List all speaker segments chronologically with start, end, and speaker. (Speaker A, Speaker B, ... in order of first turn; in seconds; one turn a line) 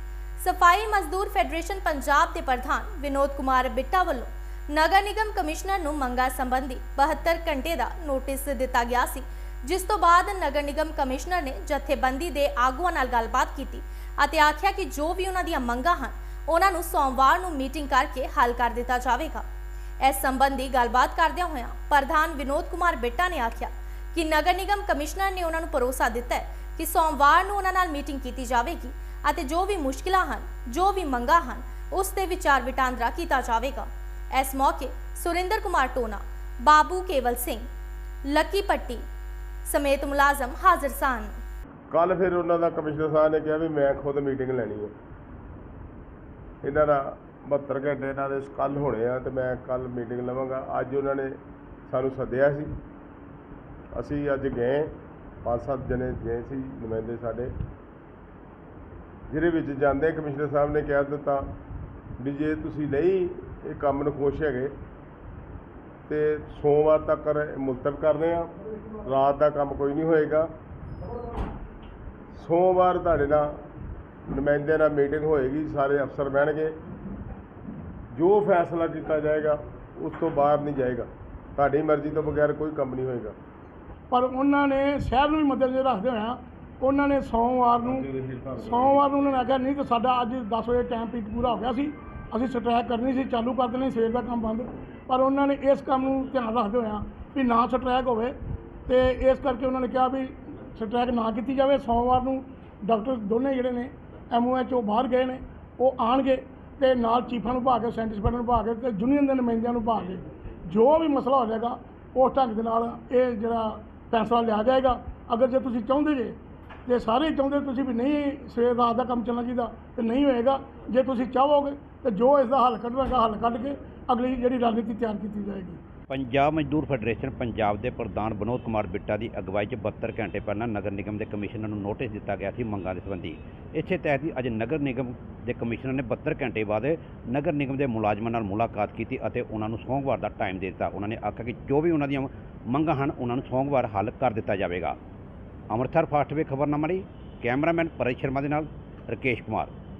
Speaker A: 0.4-19.4
Speaker A: 20.0-37.6
Speaker A: 38.3-39.0
Speaker A: 39.6-41.3
Speaker B: 41.9-44.9
Speaker B: 46.6-51.4
Speaker B: 51.9-52.7
Speaker B: 53.9-54.9
Speaker B: 55.4-57.5
Speaker B: 59.3-61.5
Speaker B: 62.2-64.7
Speaker B: 66.1-68.5
Speaker B: 69.0-70.5
Speaker B: 72.3-73.5
Speaker B: 74.3-76.7
Speaker B: 78.1-83.3
Speaker C: 84.1-88.0
Speaker B: 87.8-89.0
Speaker C: 88.6-125.8
Speaker D: 126.1-144.9
Speaker D: 145.7-149.7